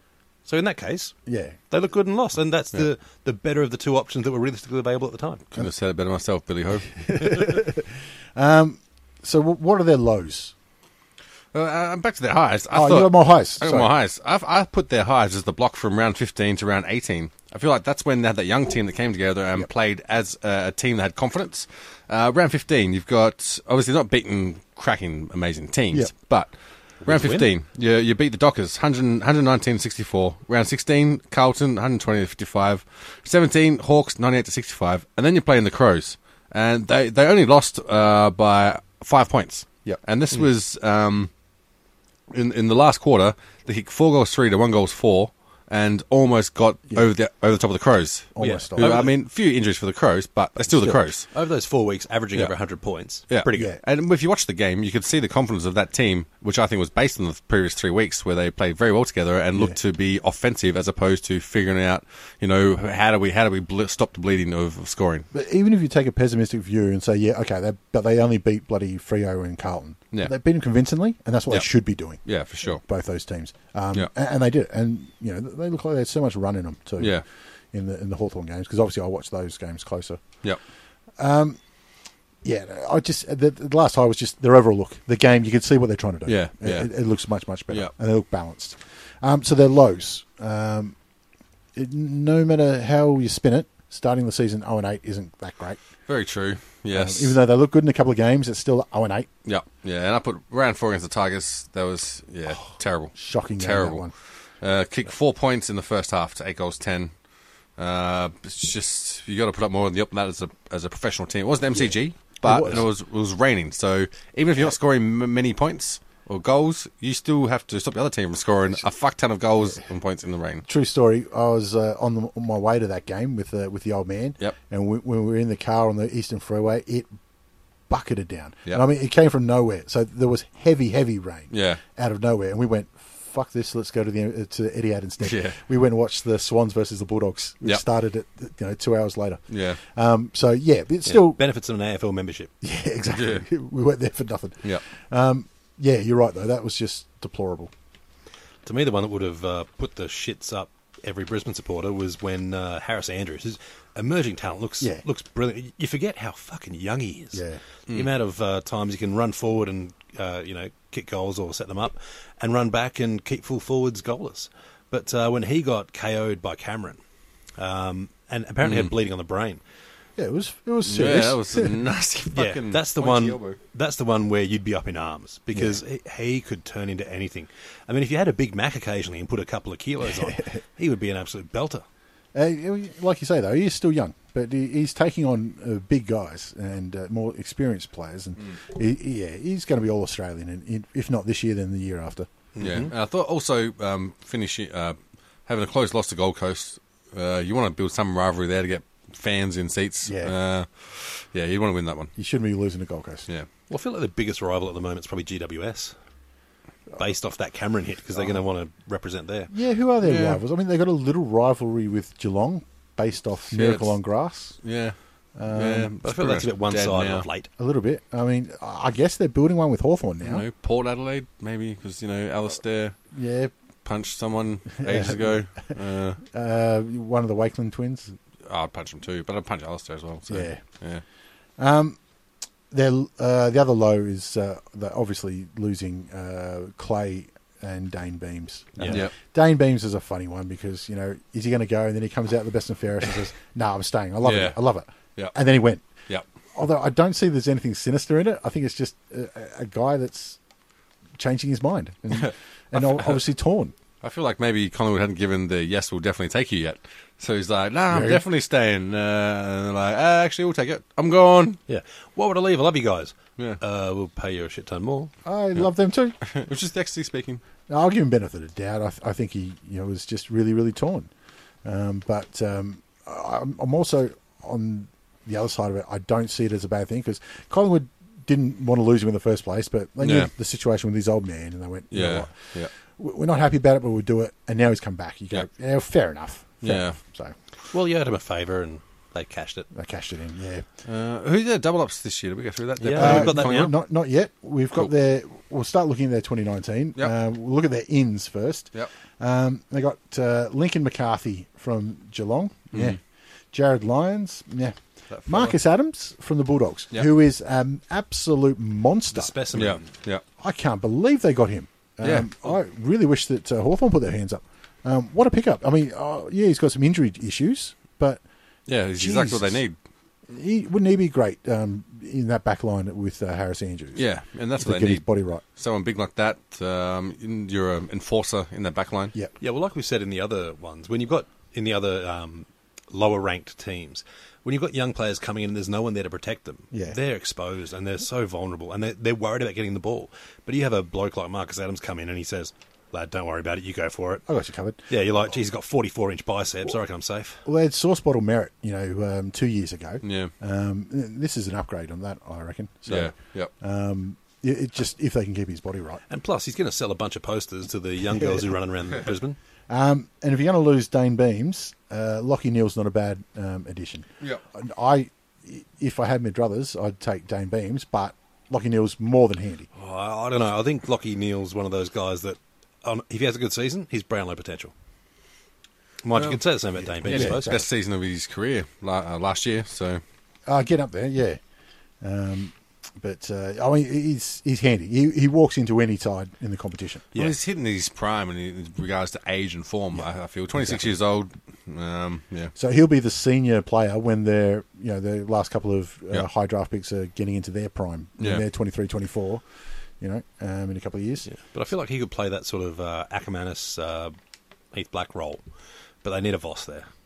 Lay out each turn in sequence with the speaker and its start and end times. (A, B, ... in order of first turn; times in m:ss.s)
0:00.4-0:01.2 A
0:01.2-0:01.6 B
0:01.7-0:05.4 A
0:05.5-0:07.0 C
0:06.9-0:10.5 B
0:11.5-0:41.3 C
0:12.7-0:13.9 B
0:27.0-0:27.5 A
0:42.3-0:51.3 C
0:48.3-0:49.1 B
0:48.4-0:49.1 A
0:50.8-0:53.7 A
0:53.3-1:05.3 C
0:53.5-0:53.8 B
1:05.3-1:17.2 B
1:12.2-1:12.8 C
1:17.7-1:20.2 B
1:21.2-1:21.6 B
1:22.4-1:31.0 B
1:26.3-1:26.9 C
1:31.7-1:35.8 B
1:36.1-1:37.4 C
1:36.9-1:39.3 B
1:39.5-1:44.1 C
1:43.1-1:44.1 B
1:44.6-1:47.1 C
1:47.8-2:00.6 C
1:52.4-1:52.9 B
2:00.6-2:07.1 B
2:07.9-2:21.4 B
2:11.5-2:11.8 C
2:15.2-2:15.6 C
2:19.5-2:19.8 C
2:21.0-2:22.5 A
2:22.6-2:27.7 B
2:23.1-2:23.4 C
2:28.6-2:47.0 A
2:37.3-2:37.6 B
2:47.6-2:49.6 A
2:48.6-2:48.9 C
2:50.2-2:51.8 B
2:50.8-2:53.6 C
2:52.3-3:01.8 A
2:55.5-2:55.8 B
3:02.3-3:12.3 B
3:12.6-3:12.9 A
3:12.6-3:22.1 C
3:20.0-3:20.3 B
3:22.2-3:23.3 B
3:23.7-3:26.0 A
3:27.0-3:29.5 A
3:29.5-3:34.6 B
3:30.0-3:30.4 C
3:33.5-3:34.0 C
3:34.6-3:37.3 C
3:35.4-3:35.9 B
3:36.0-3:37.5 A
3:37.6-3:40.4 B
3:40.2-3:43.0 C
3:43.1-3:43.5 B
3:43.8-3:46.2 C
3:44.8-3:45.5 B
3:46.2-3:48.1 B
3:48.4-3:51.0 C
3:50.3-3:50.6 B
3:51.6-3:52.0 B
3:52.7-4:05.8 B
3:58.8-3:59.0 A
3:58.8-3:59.1 C
4:04.2-4:04.6 C
4:06.5-4:10.4 B
4:11.2-4:13.7 B
4:12.1-4:13.2 C
4:14.0-4:21.6 C
4:17.9-4:18.2 B
4:21.7-4:25.1 A
4:25.2-4:26.2 B
4:26.2-4:27.4 C
4:27.7-4:31.1 B
4:31.6-4:47.4 B
4:40.0-4:40.3 C
4:41.9-4:42.7 C
4:46.6-4:47.0 C
4:47.7-4:49.7 A
4:49.7-4:50.6 B
4:50.9-4:53.7 C
4:52.8-4:53.7 A
4:53.0-5:03.0 B
5:02.7-5:03.0 C
5:03.5-5:09.4 B
5:05.1-5:05.5 C
5:09.1-5:09.9 A
5:09.5-5:10.2 C
5:10.4-5:18.2 B
5:12.0-5:12.3 C
5:18.7-5:19.8 C
5:19.0-5:19.6 B
5:20.3-5:24.0 B
5:24.0-5:29.1 C
5:24.6-5:25.4 B
5:29.4-5:44.2 A
5:36.7-5:37.0 B
5:44.3-5:44.9 B
5:44.9-5:47.4 A
5:47.4-5:56.0 B
5:50.0-5:50.3 C
5:52.9-5:53.5 C
5:56.1-5:59.4 A
5:59.7-6:09.7 B
6:09.8-6:14.7 A
6:16.0-6:17.6 A
6:16.1-6:16.4 C
6:17.0-6:20.0 C
6:17.1-6:17.6 B
6:20.5-6:21.4 B
6:22.0-6:27.1 B
6:27.1-6:32.5 C
6:30.6-6:30.9 B
6:32.6-6:39.4 B
6:40.0-6:41.3 B
6:41.2-6:44.1 A
6:44.7-6:45.4 A
6:46.0-6:46.9 A